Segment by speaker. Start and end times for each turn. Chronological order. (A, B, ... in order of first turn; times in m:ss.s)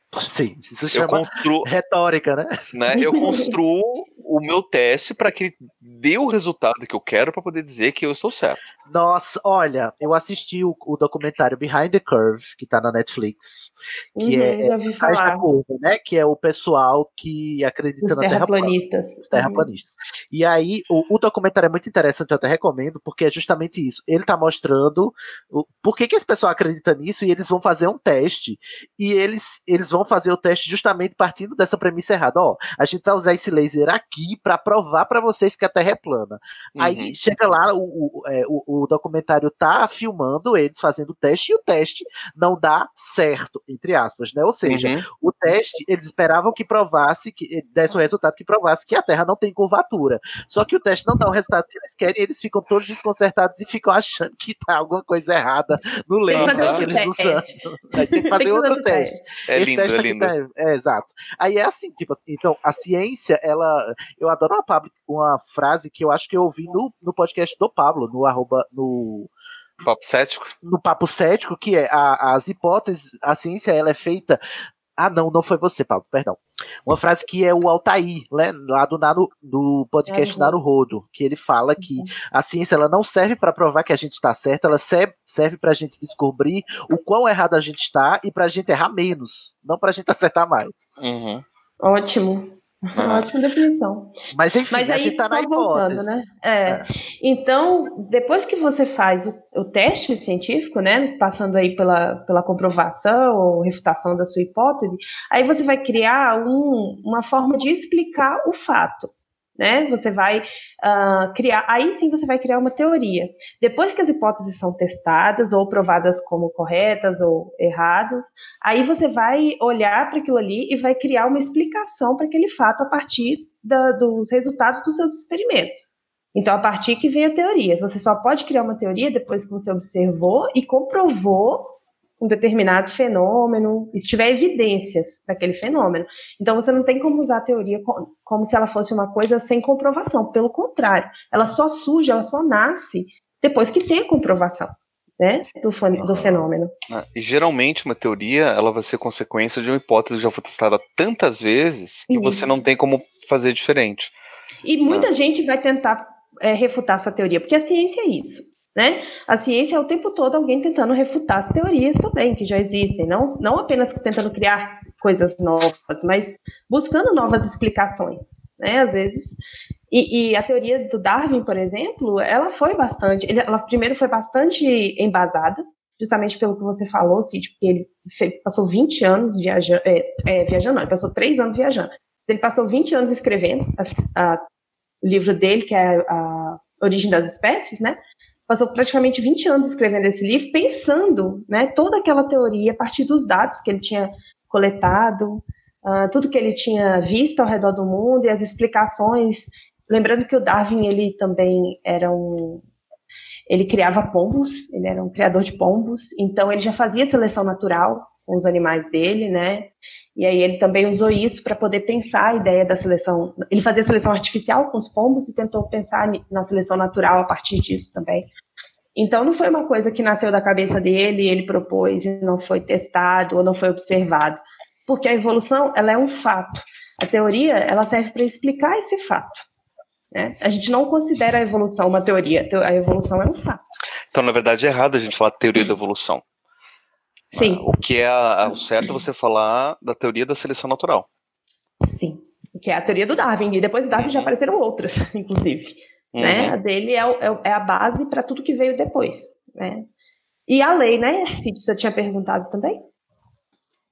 0:00.1-0:02.5 A
0:00.9-0:01.7 B
0:02.7-0:08.7 B
0:03.2-0:03.5 C
0:08.9-0:18.7 A
0:14.2-0:15.5 C
0:18.0-0:19.7 C
0:19.3-1:09.3 A
0:36.8-0:37.1 B
0:44.7-0:45.1 B
0:56.3-0:59.2 C
0:56.3-0:56.9 B
0:59.5-1:00.3 B
1:09.8-1:10.5 B
1:10.6-1:14.4 A
1:15.0-1:30.8 A
1:20.1-1:20.6 C
1:21.8-1:22.1 C
1:31.0-1:31.4 B
1:31.8-1:34.1 C
1:33.0-1:33.3 B
1:34.3-1:36.1 A
1:34.7-2:26.7 C
2:26.0-2:26.5 A
2:26.9-2:34.1 B
2:32.1-2:32.5 C
2:34.6-3:04.4 C
3:05.0-3:22.6 C
3:23.5-3:38.3 C
3:39.0-3:49.4 C
3:50.1-3:53.6 C
3:54.1-3:56.2 B
3:57.3-3:57.6 C
3:57.4-4:01.1 B
4:01.8-4:09.9 C
4:03.9-4:04.3 B
4:06.1-4:06.6 B
4:10.5-4:12.9 C